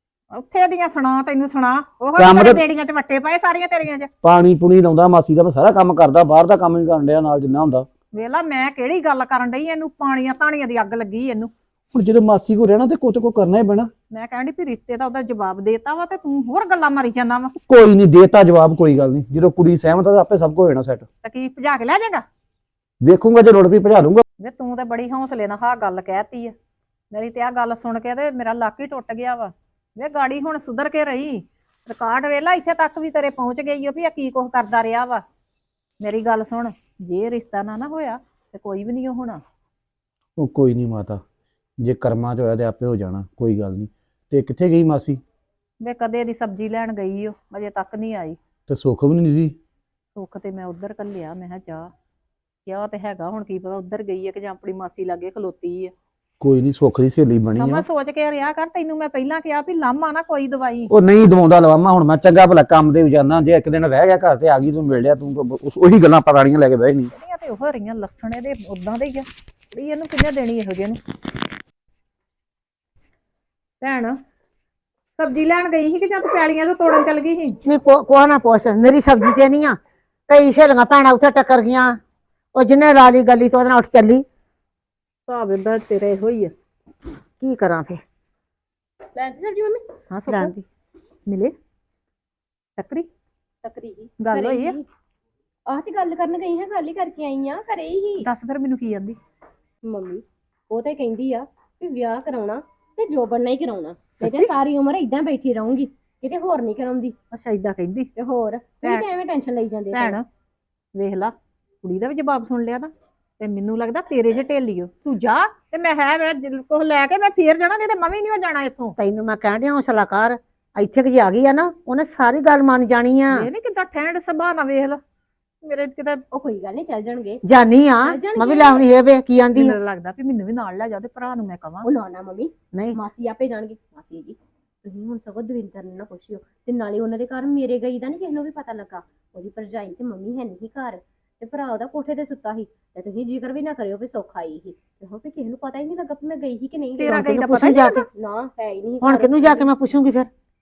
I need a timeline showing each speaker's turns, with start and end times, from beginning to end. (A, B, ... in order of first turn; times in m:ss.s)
0:00.3-0:04.1 A
0:02.2-0:02.6 B
0:04.2-0:07.9 B
0:08.1-0:11.5 A
0:11.9-0:13.9 B
0:14.1-0:17.6 A
0:17.7-0:21.0 B
0:21.2-0:22.2 A
0:23.0-0:24.2 B
0:24.4-0:26.6 A
0:27.1-0:35.2 A
0:36.0-0:39.4 A
0:40.4-0:41.2 B
0:41.8-0:45.2 B
0:45.8-0:48.4 A
0:48.7-0:49.6 B
0:50.2-0:51.9 A
0:52.7-0:55.9 A
0:56.4-0:57.8 B
0:57.6-1:00.9 A
1:00.9-1:07.1 B
1:07.1-1:11.0 A
1:13.8-1:14.2 A
1:15.2-1:17.6 A
1:17.6-1:19.8 C
1:20.3-1:22.0 C
1:22.6-1:24.2 C
1:25.3-1:26.5 A
1:27.4-1:28.0 C
1:29.1-1:29.8 D
1:30.1-1:30.6 A
1:30.3-1:30.6 C
1:31.3-1:31.6 A
1:32.8-1:33.1 A
1:33.6-1:34.8 D
1:34.2-1:34.8 A
1:35.7-1:38.3 D
1:38.2-1:39.2 A
1:39.8-1:47.2 D
1:44.2-1:44.5 A
1:47.3-1:48.1 A
1:48.2-1:50.2 D
1:49.9-1:50.3 A
1:50.9-1:58.9 A
1:59.0-2:03.5 C
2:03.3-2:05.0 A
2:05.6-2:06.2 A
2:06.3-2:07.4 D
2:07.4-2:09.8 C
2:08.0-2:08.8 D
2:09.6-2:11.9 A
2:11.8-2:27.2 D
2:27.0-2:28.0 A
2:27.1-2:28.1 C
2:28.1-2:29.7 D
2:29.0-2:30.3 C